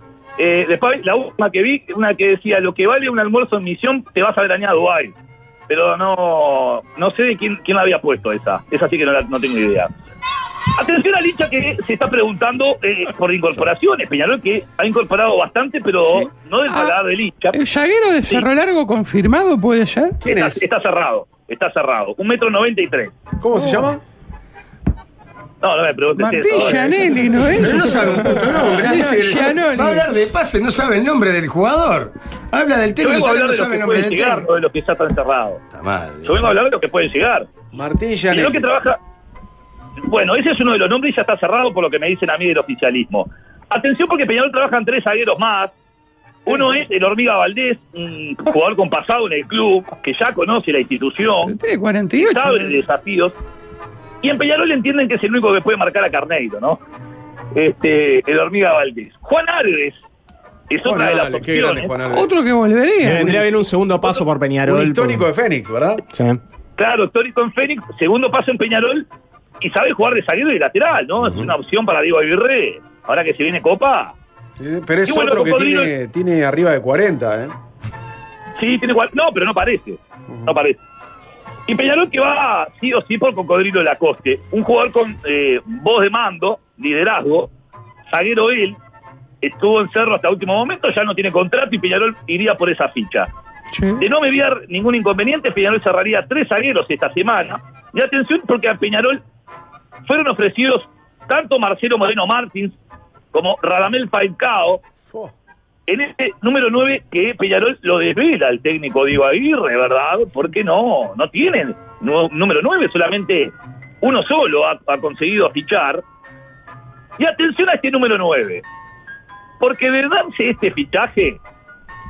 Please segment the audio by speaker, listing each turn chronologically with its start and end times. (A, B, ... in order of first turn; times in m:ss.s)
0:00.4-0:05.1 A
0:05.7-0:09.9 A
0:10.8-0:17.6 A
0:16.0-0:17.0 B
0:17.5-0:20.2 B
0:20.2-0:20.6 C
0:20.3-0:23.2 A
0:23.4-0:24.0 C
0:23.6-0:24.0 B
0:25.6-0:27.2 A
0:26.2-0:30.1 B
0:27.6-0:34.5 D
0:28.4-0:29.1 C
0:33.0-0:35.6 A
0:35.7-0:36.5 D
0:36.2-0:37.5 A
0:37.7-0:38.7 C
0:38.3-0:39.0 A
0:40.0-0:45.7 A
0:46.5-0:51.6 A
0:51.4-0:52.8 B
0:52.2-0:53.4 A
0:54.2-0:56.8 A
0:57.5-1:00.0 A
1:00.7-1:01.9 A
1:00.8-1:02.3 C
1:02.1-1:03.4 B
1:03.0-1:05.3 E
1:04.7-1:06.0 C
1:06.1-1:06.4 E
1:06.8-1:09.1 A
1:09.6-1:14.2 A
1:14.6-1:17.5 C
1:15.1-1:15.9 A
1:18.6-1:20.8 A
1:21.7-1:27.5 A
1:28.1-1:28.8 A
1:29.4-1:33.3 A
1:33.7-1:34.0 B
1:34.0-1:39.2 A
1:40.1-1:42.8 A
1:43.3-1:44.8 A
1:45.9-1:56.0 A
1:57.2-1:58.6 A
1:59.6-2:01.4 A